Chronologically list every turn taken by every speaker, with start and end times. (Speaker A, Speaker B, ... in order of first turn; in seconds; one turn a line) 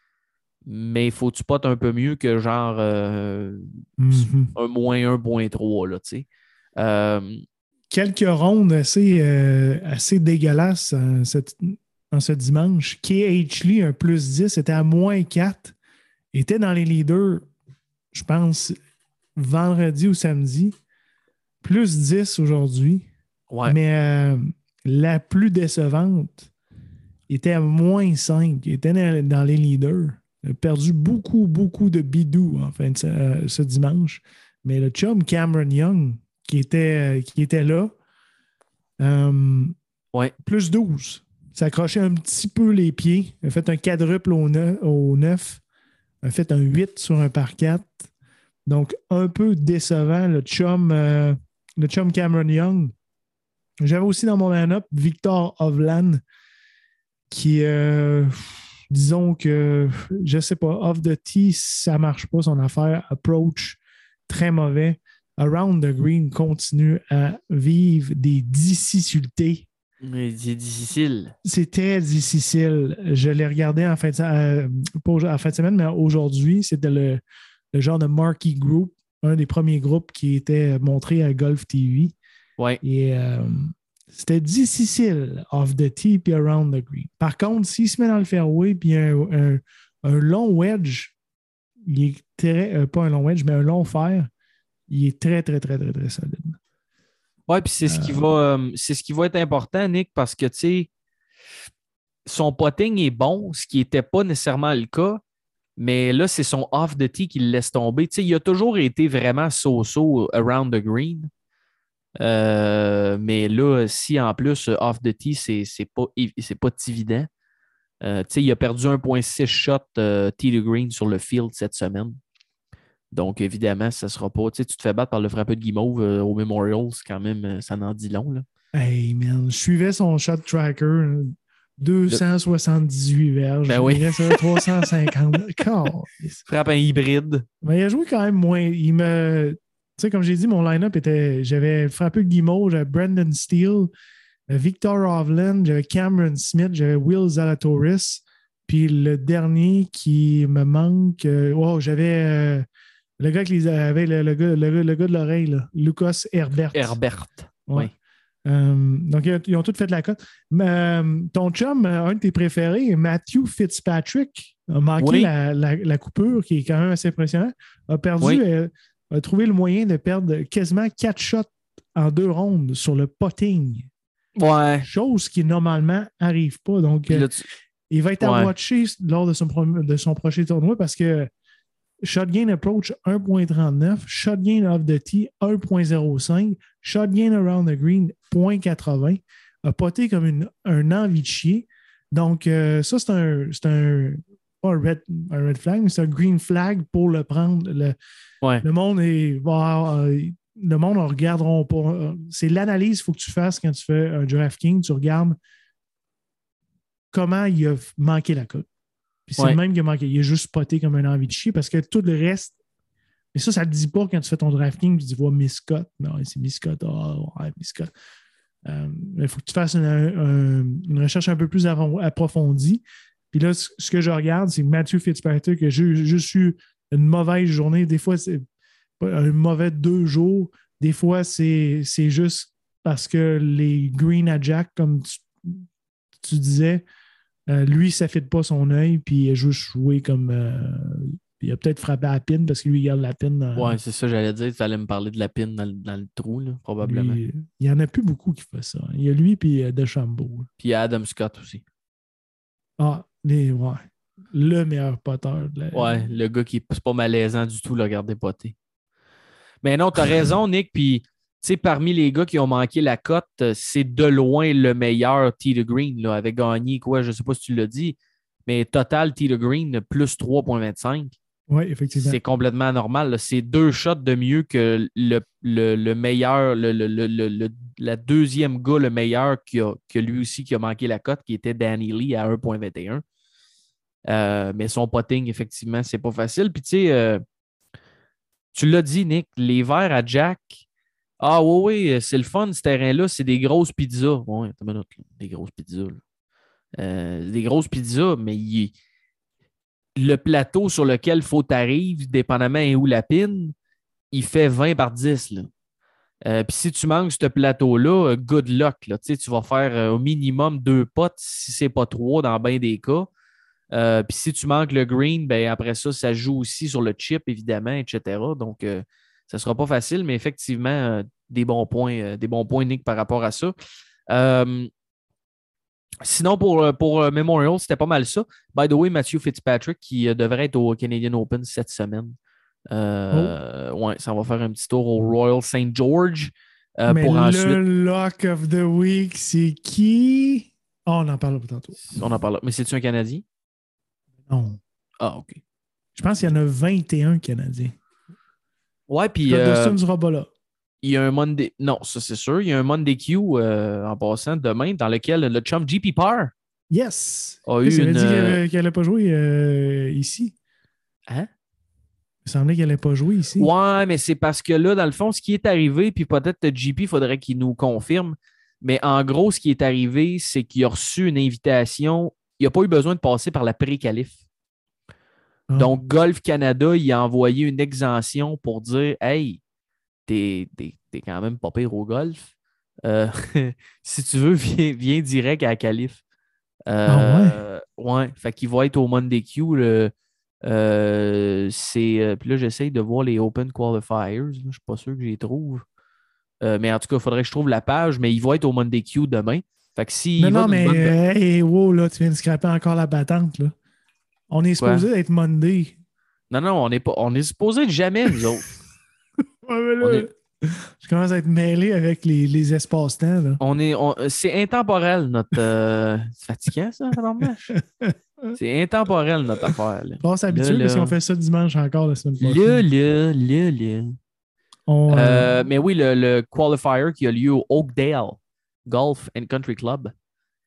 Speaker A: 0.7-7.4
Speaker B: 4.0-4.5
Speaker B: 7.9-15.8
Speaker B: 16.3-17.5
Speaker B: 18.1-18.8
Speaker B: 19.4-20.8
Speaker B: 21.6-23.1
Speaker A: 23.5-23.8
Speaker B: 23.7-26.5
Speaker B: 27.3-37.9
Speaker B: 39.0-39.8
Speaker B: 40.4-45.6
Speaker B: 46.2-48.1
Speaker B: 48.7-52.9
Speaker B: 53.8-56.2
Speaker B: 57.3-69.7
Speaker A: 70.0-71.3
Speaker B: 71.4-77.2
Speaker B: 77.7-82.2
Speaker B: 82.8-91.1
Speaker B: 91.8-94.3
Speaker B: 94.9-96.6
Speaker A: 97.5-100.9
Speaker B: 97.8-98.2
Speaker A: 102.3-105.2
Speaker A: 105.8-111.3
Speaker A: 112.2-117.3
Speaker A: 118.0-122.2
Speaker A: 123.1-128.5
Speaker B: 128.7-136.4
Speaker A: 133.7-134.7
Speaker A: 136.4-137.5
Speaker B: 137.6-143.9
Speaker B: 144.5-152.7
Speaker B: 153.2-157.0
Speaker A: 156.7-157.9
Speaker B: 157.7-157.9
Speaker B: 158.5-173.9
Speaker A: 165.0-165.3
Speaker A: 174.4-174.9
Speaker B: 174.8-177.3
Speaker A: 177.1-177.5
Speaker B: 177.9-181.3
Speaker A: 178.2-178.5
Speaker B: 182.0-198.0
Speaker B: 198.6-205.4
Speaker B: 207.1-208.7
Speaker B: 209.3-212.6
Speaker B: 213.3-217.9
Speaker B: 218.7-228.4
Speaker B: 229.0-235.7
Speaker B: 236.2-236.8
Speaker B: 237.5-243.8
Speaker A: 243.6-247.2
Speaker B: 246.8-250.5
Speaker A: 250.6-251.6
Speaker B: 252.8-256.1
Speaker A: 255.7-258.6
Speaker A: 259.6-268.0
Speaker A: 268.5-271.1
Speaker B: 271.5-272.2
Speaker A: 271.9-283.0
Speaker A: 284.1-287.2
Speaker A: 288.5-290.6
Speaker A: 291.2-296.0
Speaker A: 296.8-298.7
Speaker A: 300.0-303.5
Speaker A: 304.1-305.5
Speaker A: 306.3-313.1
Speaker A: 313.7-323.6
Speaker A: 324.1-324.7
Speaker A: 326.0-332.2
Speaker A: 332.7-337.6
Speaker B: 336.9-341.8
Speaker A: 341.9-343.2
Speaker B: 344.3-344.6
Speaker A: 345.0-345.4
Speaker B: 345.9-347.8
Speaker A: 348.9-349.8
Speaker B: 349.3-350.3
Speaker A: 350.8-356.3
Speaker B: 356.7-360.4
Speaker A: 357.5-358.4
Speaker B: 362.2-363.5
Speaker A: 363.4-374.2
Speaker B: 375.5-375.8
Speaker A: 375.6-379.4
Speaker A: 380.1-382.3
Speaker A: 382.8-386.0
Speaker A: 386.7-389.9
Speaker B: 386.9-387.4
Speaker A: 390.4-395.6
Speaker A: 396.4-400.9
Speaker B: 400.2-403.5
Speaker B: 404.3-405.8
Speaker A: 404.6-404.9
Speaker A: 406.3-408.5
Speaker B: 409.4-413.4
Speaker A: 409.8-410.1
Speaker A: 413.4-417.5
Speaker B: 417.5-418.4
Speaker A: 418.3-420.9
Speaker B: 419.4-422.6
Speaker A: 422.2-424.0
Speaker B: 424.7-425.3
Speaker A: 424.9-429.9